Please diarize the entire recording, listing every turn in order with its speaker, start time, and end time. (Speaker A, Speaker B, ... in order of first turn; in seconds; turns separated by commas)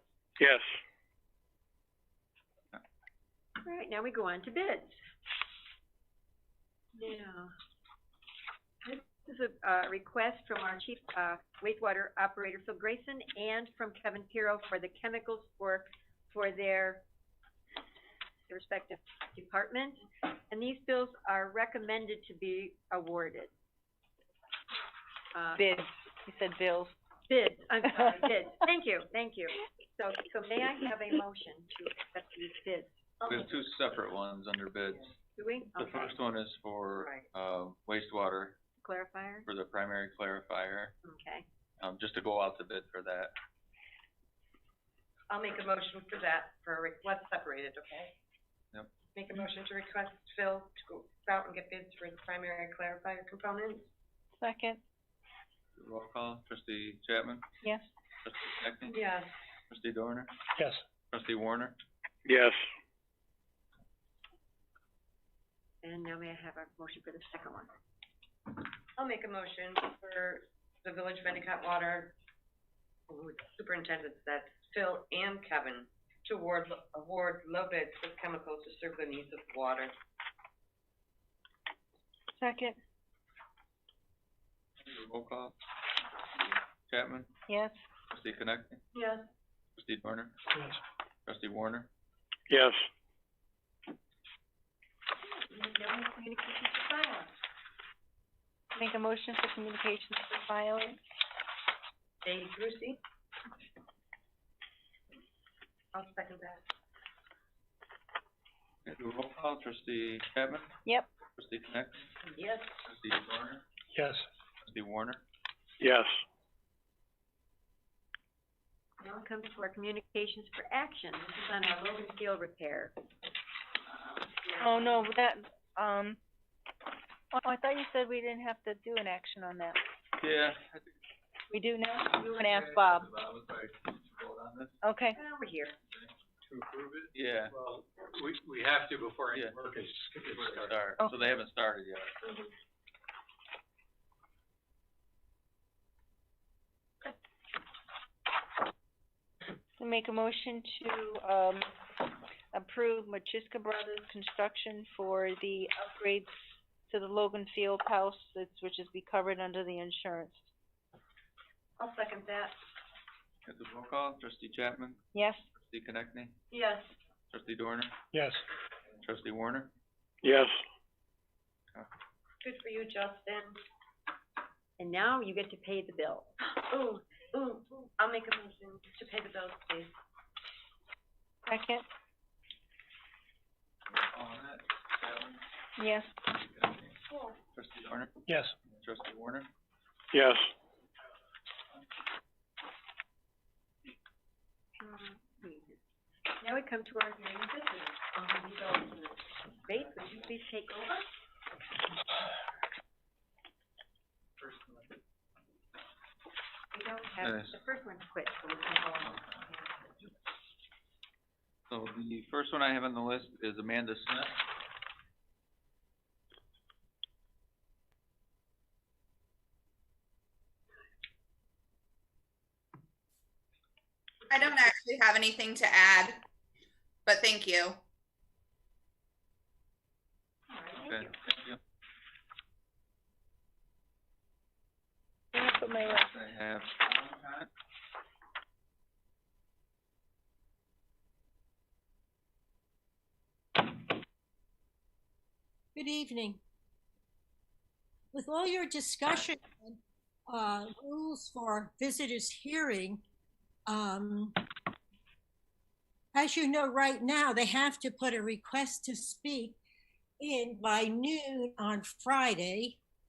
Speaker A: 0.4-0.7, Speaker B: 3.6-4.9, Speaker B: 7.0-7.5, Speaker B: 8.8-17.0, Speaker B: 18.5-23.5, Speaker B: 25.3-25.7, Speaker C: 25.6-26.9, Speaker B: 27.3-33.0, Speaker D: 33.2-33.5, Speaker E: 33.2-35.1, Speaker B: 35.4-36.1, Speaker E: 35.8-38.6, Speaker D: 36.9-37.2, Speaker B: 38.8-39.5, Speaker E: 39.4-40.9, Speaker B: 41.0-41.5, Speaker E: 41.8-43.3, Speaker D: 45.3-48.1, Speaker D: 49.1-53.9, Speaker C: 54.4-54.8, Speaker E: 55.8-57.5, Speaker E: 58.2-59.0, Speaker D: 58.9-59.3, Speaker E: 59.7-60.3, Speaker E: 61.1-61.8, Speaker A: 62.2-62.6, Speaker B: 65.8-67.7, Speaker D: 69.0-72.1, Speaker D: 73.1-79.9, Speaker C: 82.4-82.8, Speaker E: 84.8-85.5, Speaker E: 86.9-87.3, Speaker C: 87.5-87.8, Speaker E: 88.1-88.8, Speaker D: 88.9-89.2, Speaker E: 89.8-90.3, Speaker E: 91.2-91.9, Speaker A: 92.5-92.8, Speaker B: 95.3-97.3, Speaker C: 98.8-101.0, Speaker D: 102.2-103.0, Speaker D: 105.9-106.6, Speaker E: 108.8-110.7, Speaker E: 111.3-112.1, Speaker D: 112.2-112.7, Speaker E: 112.8-113.6, Speaker C: 113.9-114.2, Speaker E: 114.6-115.2, Speaker A: 115.8-116.2, Speaker B: 119.0-122.9, Speaker B: 124.4-125.0, Speaker C: 124.6-126.2, Speaker C: 127.3-129.8, Speaker E: 130.2-130.9, Speaker C: 131.5-133.1, Speaker E: 132.1-134.8, Speaker C: 134.8-135.2, Speaker B: 135.1-135.7, Speaker A: 136.5-140.8, Speaker E: 137.1-137.5, Speaker E: 139.3-139.6, Speaker E: 140.2-142.5, Speaker C: 149.8-151.7, Speaker C: 152.5-156.3, Speaker C: 156.8-160.4, Speaker B: 161.8-162.5, Speaker E: 163.4-165.0, Speaker C: 165.1-165.4, Speaker E: 165.5-166.3, Speaker B: 166.5-166.8, Speaker E: 167.3-167.9, Speaker C: 168.1-168.4, Speaker E: 169.0-169.7, Speaker A: 170.2-170.6, Speaker D: 172.4-173.6, Speaker B: 174.8-176.3, Speaker D: 176.6-179.9, Speaker C: 181.4-181.8, Speaker E: 183.8-185.4, Speaker C: 185.8-186.1, Speaker E: 186.2-187.0, Speaker E: 187.5-189.5, Speaker C: 188.3-188.5, Speaker A: 190.1-190.4, Speaker B: 194.8-195.8, Speaker B: 196.4-201.0, Speaker E: 204.4-204.8, Speaker B: 206.7-209.9, Speaker E: 207.2-207.5, Speaker E: 209.1-209.3, Speaker E: 211.7-214.4, Speaker F: 224.3-226.2, Speaker F: 227.1-227.8, Speaker B: 230.5-231.2, Speaker E: 230.7-231.6, Speaker C: 235.3-236.2, Speaker E: 235.4-237.5, Speaker G: 245.7-246.4, Speaker G: 248.1-253.0, Speaker G: 253.7-254.3, Speaker G: 256.1-259.6, Speaker G: 260.2-262.8